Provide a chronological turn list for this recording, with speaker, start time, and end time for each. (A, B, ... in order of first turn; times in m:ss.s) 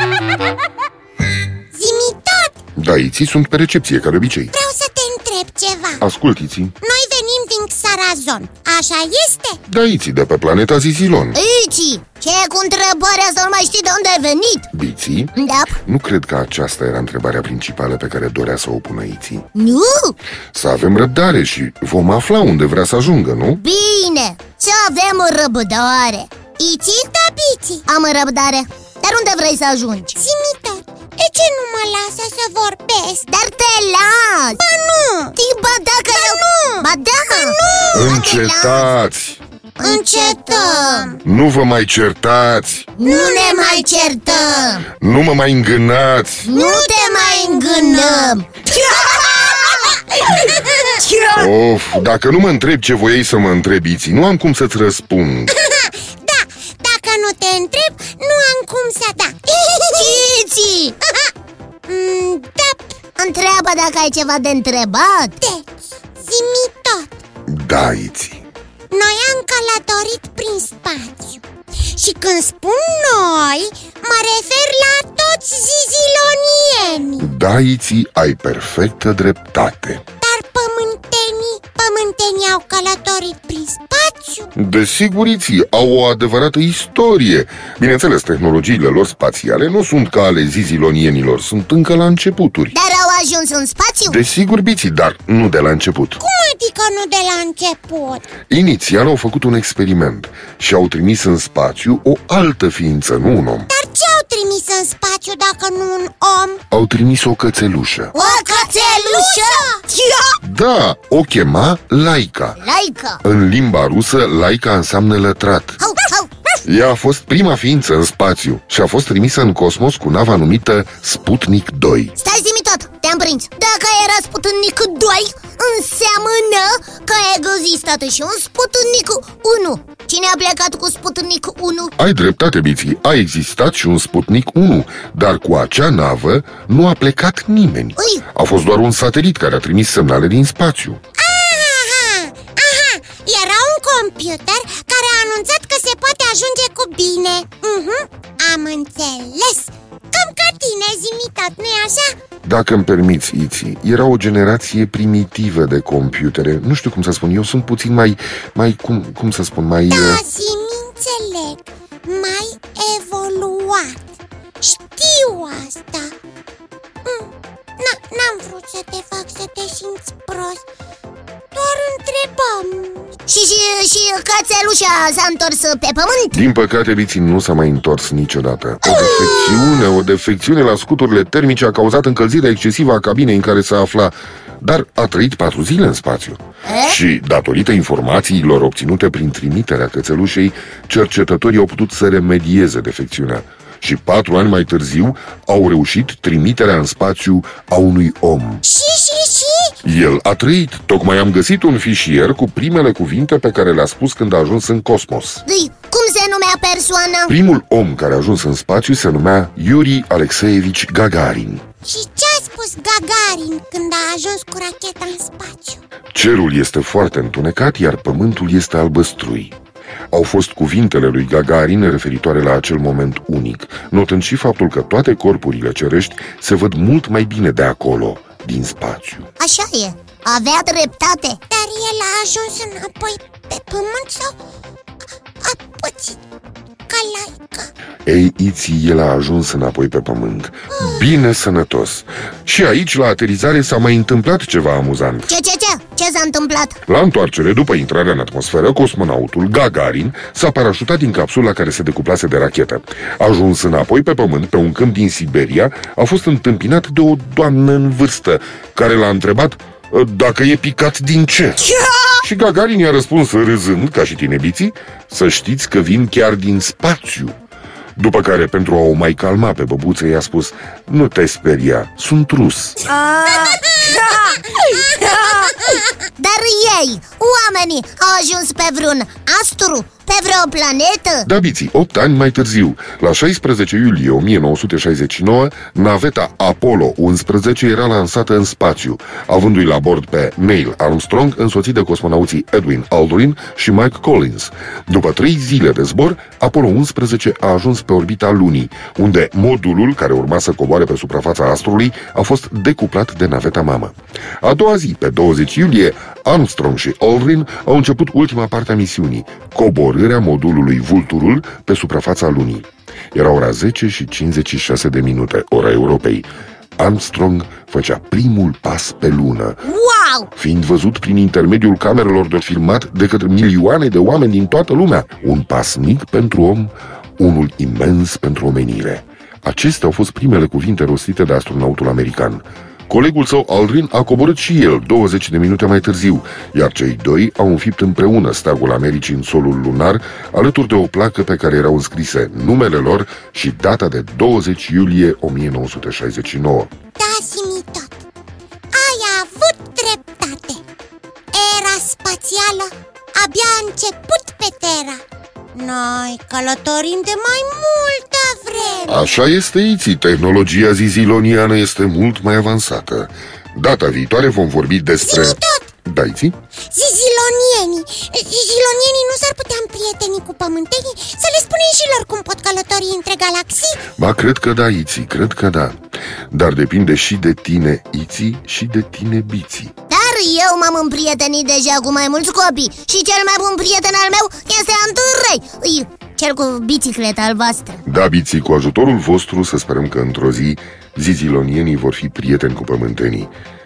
0:01.7-0:02.6 A
0:02.8-0:04.5 B
0:04.5-0:06.0 A
0:06.0-0:06.7 B
0:06.8-0:09.6 A
0:09.7-0:11.4 B
0:11.3-0:14.7 C
0:14.7-0:19.4 B
0:15.3-0:15.8 C
0:19.5-0:20.2 C
0:20.5-0:23.6 B
0:23.6-0:27.1 C
0:27.1-0:27.8 A
0:27.8-0:30.2 C
0:30.2-0:33.3 A
0:33.3-0:34.6 C
0:34.6-0:35.3 A
0:35.4-0:38.9 C
0:36.0-0:38.2 A
0:37.9-0:39.4 B
0:39.8-0:41.1 C
0:39.8-0:41.2 A
0:41.2-0:42.9 B
0:43.0-0:44.8 C
0:43.0-0:44.7 A
0:45.0-0:46.5 B
0:46.4-0:50.0 C
0:46.5-0:51.5 A
0:51.3-0:55.5 B
0:55.5-1:00.2 A
0:59.8-1:01.0 C
1:01.9-1:02.9 A
1:03.2-1:05.4 C
1:05.4-1:07.1 A
1:07.5-1:08.4 B
1:08.9-1:17.3 A
1:17.2-1:20.0 B
1:20.2-1:24.5 A
1:24.6-1:32.7 B
1:32.7-1:34.2 C
1:34.0-1:36.2 B
1:36.2-1:38.2 A
1:38.5-1:43.7 B
1:43.7-1:46.6 A
1:46.7-1:48.1 B
1:48.1-1:49.6 C
1:48.1-1:50.4 A
1:50.4-1:52.6 B
1:52.6-1:53.2 C
1:53.2-1:55.8 B
1:55.8-1:56.3 C
1:56.6-2:02.1 B
2:02.2-2:11.9 C
2:12.0-2:21.0 B
2:18.0-2:18.2 C
2:21.2-2:32.2 A
2:32.4-2:40.2 B
2:39.9-2:44.0 A
2:44.6-2:46.1 A
2:47.0-2:50.6 A
2:51.5-2:53.1 A
2:53.3-2:56.4 C
2:56.3-3:18.6 B
2:58.9-2:59.9 A
3:06.6-3:07.0 C
3:18.6-3:19.7 A
3:19.8-3:25.4 B
3:25.4-3:27.3 C
3:27.3-3:31.6 B
3:31.8-3:35.8 A
3:36.1-3:39.6 B
3:40.1-3:49.3 B
3:49.4-3:51.4 C
3:51.5-3:54.3 A
3:55.4-3:56.2 A
3:56.9-3:57.7 A
3:58.0-4:05.3 B
4:00.7-4:01.1 A
4:05.3-4:06.8 C
4:06.9-4:21.7 B
4:21.6-4:22.2 A
4:22.2-4:27.4 B
4:28.0-4:32.9 B
4:32.9-4:35.8 A
4:36.2-4:41.3 C
4:41.2-5:19.6 B
5:19.6-5:20.3 C
5:20.3-5:46.7 B
5:47.0-5:47.9 A
5:48.7-5:50.6 A
5:51.3-5:55.0 A
5:55.5-5:59.0 A
5:58.8-6:06.3 B
6:05.0-6:05.7 A
6:06.7-6:13.8 A
6:13.9-6:15.8 B
6:16.3-6:19.7 B
6:19.9-6:27.8 C
6:27.8-6:33.3 B